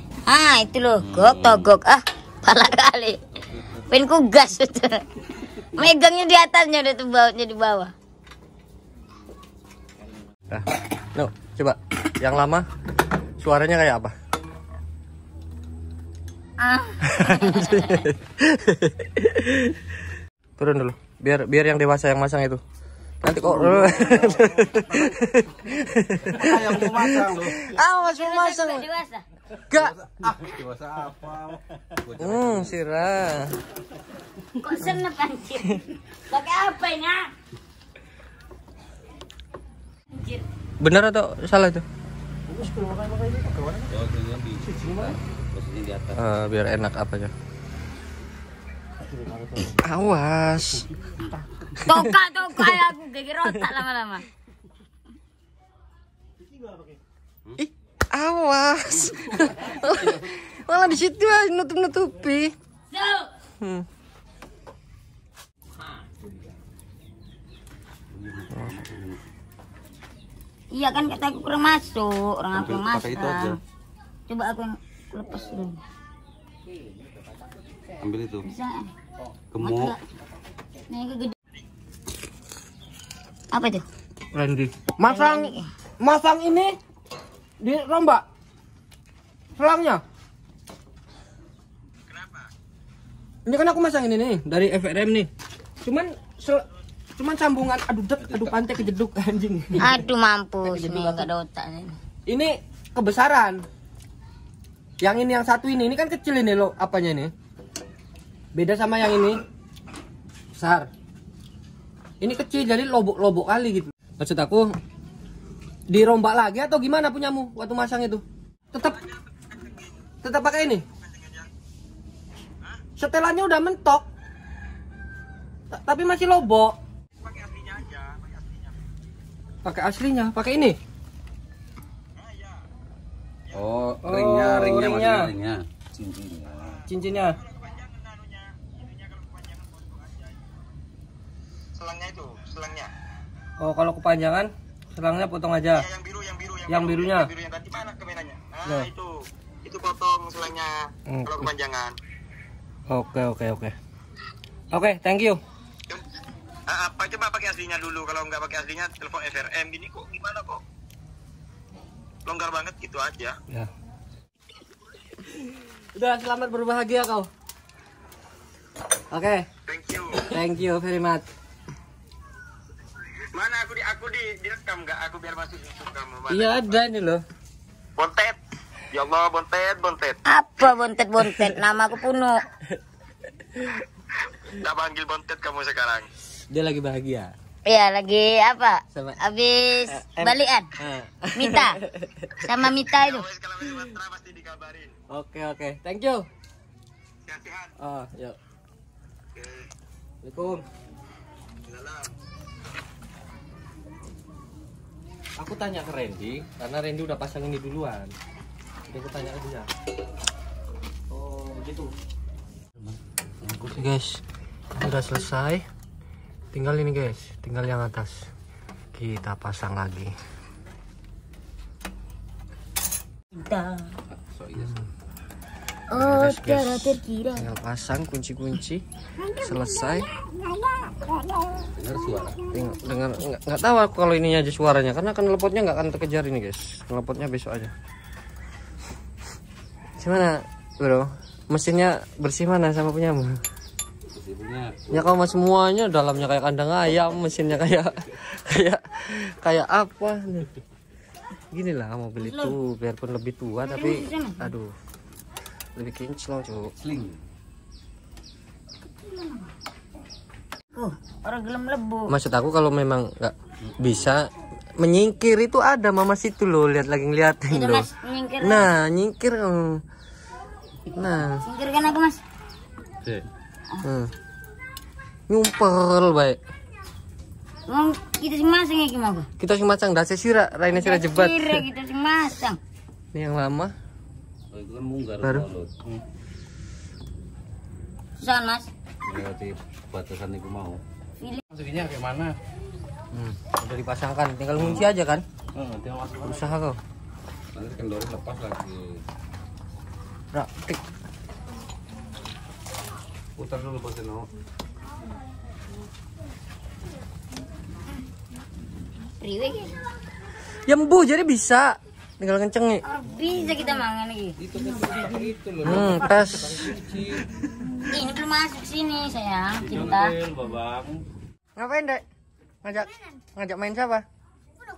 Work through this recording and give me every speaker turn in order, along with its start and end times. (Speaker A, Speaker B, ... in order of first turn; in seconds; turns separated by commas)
Speaker A: 0.2-3.2, Speaker B: 1.0-1.7, Speaker A: 3.9-5.0, Speaker A: 5.7-7.9, Speaker C: 10.5-12.7, Speaker C: 13.4-14.1, Speaker A: 16.6-18.1, Speaker C: 17.0-19.8, Speaker C: 20.6-22.6, Speaker C: 23.2-28.9, Speaker B: 23.4-25.2, Speaker B: 26.2-27.6, Speaker A: 27.8-29.2, Speaker C: 29.7-29.9, Speaker B: 29.7-32.8, Speaker C: 32.2-33.5, Speaker A: 34.6-37.3, Speaker A: 40.1-40.4, Speaker C: 40.8-41.8, Speaker C: 42.5-43.8, Speaker B: 43.9-46.2, Speaker C: 46.1-47.3, Speaker C: 49.8-50.9, Speaker C: 51.9-52.7, Speaker A: 51.9-54.2, Speaker C: 57.6-62.5, Speaker A: 62.9-63.3, Speaker C: 63.6-63.9, Speaker B: 68.1-69.2, Speaker A: 70.7-73.6, Speaker B: 72.5-73.6, Speaker A: 74.3-75.8, Speaker B: 78.0-78.5, Speaker A: 78.4-78.9, Speaker B: 79.5-79.9, Speaker A: 79.6-80.0, Speaker A: 80.9-81.3, Speaker A: 83.5-83.9, Speaker C: 84.3-86.8, Speaker A: 85.0-85.7, Speaker C: 87.6-88.2, Speaker C: 89.6-90.0, Speaker D: 92.1-92.5, Speaker C: 93.4-95.3, Speaker C: 95.8-96.7, Speaker C: 97.2-100.0, Speaker A: 99.8-102.0, Speaker C: 100.6-101.3, Speaker C: 102.3-103.6, Speaker C: 105.0-107.3, Speaker C: 108.5-109.4, Speaker C: 110.5-110.9, Speaker C: 112.2-114.7, Speaker C: 115.9-119.0, Speaker D: 119.2-119.9, Speaker C: 120.2-120.8, Speaker D: 121.0-121.5, Speaker C: 123.0-124.0, Speaker C: 125.7-126.8, Speaker D: 127.2-128.7, Speaker C: 129.6-130.8, Speaker D: 132.2-132.6, Speaker B: 133.5-136.8, Speaker C: 134.0-135.3, Speaker C: 136.9-137.4, Speaker D: 137.4-140.3, Speaker D: 141.8-142.9, Speaker C: 143.6-145.9, Speaker D: 145.8-151.9, Speaker C: 146.7-147.3, Speaker C: 148.7-148.9, Speaker C: 151.1-151.5, Speaker C: 152.9-153.7, Speaker C: 154.7-155.4, Speaker D: 156.7-160.6, Speaker D: 162.2-163.4, Speaker C: 165.9-167.3, Speaker C: 169.1-169.5, Speaker D: 169.7-170.3, Speaker C: 170.3-171.2, Speaker D: 173.3-176.6, Speaker C: 176.3-177.2, Speaker D: 178.0-178.4, Speaker D: 178.9-180.2, Speaker A: 180.3-182.4, Speaker C: 181.2-181.5, Speaker D: 184.6-186.1, Speaker C: 186.5-187.3, Speaker A: 187.7-190.7, Speaker C: 188.9-189.2, Speaker C: 189.9-192.7, Speaker A: 191.4-191.8, Speaker A: 192.4-193.3, Speaker D: 193.0-194.9, Speaker C: 195.1-196.2, Speaker D: 197.2-197.7, Speaker C: 197.8-198.4, Speaker D: 199.3-199.6, Speaker C: 200.2-200.6, Speaker D: 201.7-202.1, Speaker C: 205.4-208.1, Speaker C: 208.9-209.7, Speaker C: 211.1-211.9, Speaker B: 213.4-213.8, Speaker C: 213.7-214.2, Speaker C: 214.8-215.6, Speaker C: 216.5-218.2, Speaker C: 218.9-220.1, Speaker A: 223.3-224.0, Speaker B: 224.1-224.8, Speaker A: 225.9-227.4, Speaker C: 225.9-228.8, Speaker C: 229.4-230.1, Speaker A: 230.3-231.7, Speaker B: 231.7-232.4, Speaker C: 232.5-237.7, Speaker C: 240.0-243.4, Speaker B: 244.1-245.1, Speaker C: 244.9-250.5, Speaker C: 251.5-254.7, Speaker A: 252.2-252.5, Speaker A: 253.6-254.5, Speaker C: 255.8-256.7, Speaker B: 256.8-257.2, Speaker A: 260.8-262.1, Speaker C: 262.1-264.2, Speaker C: 264.8-267.9, Speaker A: 267.5-268.7, Speaker C: 268.4-269.8, Speaker C: 270.9-271.4, Speaker A: 271.4-272.2, Speaker C: 273.8-274.1, Speaker C: 275.3-276.4, Speaker A: 277.7-279.3, Speaker C: 279.4-281.6, Speaker A: 280.7-282.6, Speaker C: 283.1-283.7, Speaker B: 284.5-286.0, Speaker C: 285.2-285.5, Speaker A: 288.2-288.7, Speaker B: 289.0-290.8, Speaker B: 291.5-292.3, Speaker C: 293.1-295.2, Speaker B: 294.6-294.8, Speaker B: 295.5-296.5, Speaker C: 296.2-296.8, Speaker B: 297.5-299.0, Speaker C: 300.3-300.8, Speaker B: 303.4-304.3, Speaker A: 309.2-309.8, Speaker C: 310.6-312.8, Speaker A: 312.8-314.4, Speaker B: 314.4-317.8, Speaker C: 315.6-316.6, Speaker A: 317.9-320.1, Speaker B: 319.6-321.0, Speaker C: 321.6-322.0, Speaker C: 322.6-324.0